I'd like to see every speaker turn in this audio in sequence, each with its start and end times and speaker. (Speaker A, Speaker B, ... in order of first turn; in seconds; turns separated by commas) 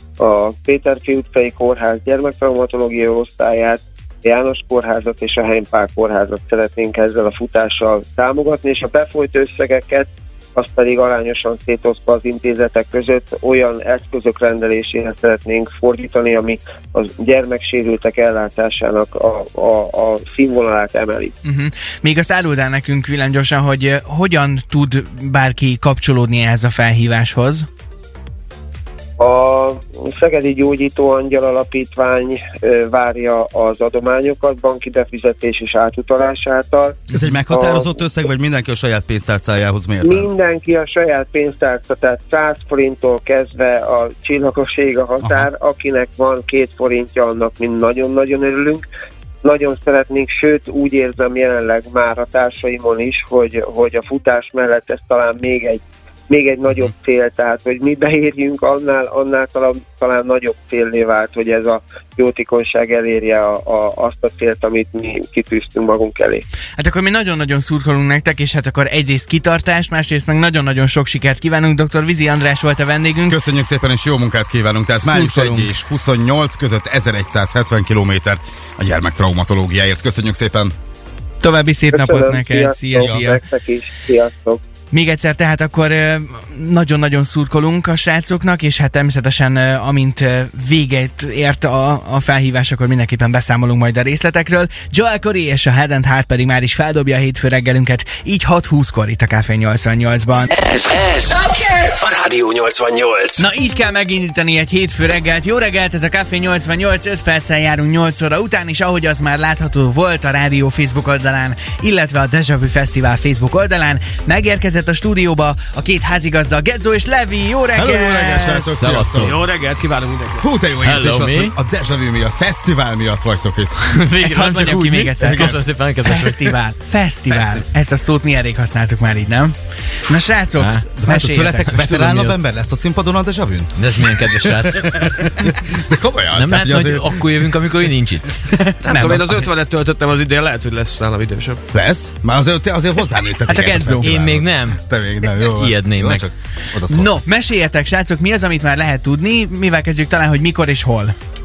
Speaker A: 0.2-21.3, Speaker B: 21.4-27.7, Speaker A: 29.2-38.0, Speaker C: 37.1-40.3, Speaker A: 40.0-48.9, Speaker A: 49.4-66.5, Speaker B: 66.8-73.4, Speaker C: 73.3-80.7, Speaker B: 75.0-75.7, Speaker B: 81.4-83.4, Speaker A: 81.9-84.6, Speaker C: 82.9-83.3, Speaker B: 84.9-100.5, Speaker D: 100.7-103.5, Speaker B: 103.4-118.7, Speaker C: 117.8-119.3, Speaker E: 118.6-119.4, Speaker F: 119.2-120.5, Speaker C: 120.4-123.7, Speaker E: 120.8-121.5, Speaker E: 123.8-126.5, Speaker B: 124.2-129.6, Speaker C: 125.2-125.6, Speaker B: 130.1-131.9, Speaker E: 130.6-131.1, Speaker C: 131.0-137.3, Speaker E: 131.7-132.4, Speaker E: 133.8-135.3, Speaker E: 136.3-138.3, Speaker B: 138.4-139.4, Speaker F: 138.8-141.6, Speaker C: 141.7-147.2, Speaker B: 143.5-144.1, Speaker E: 144.0-146.3, Speaker B: 146.9-151.2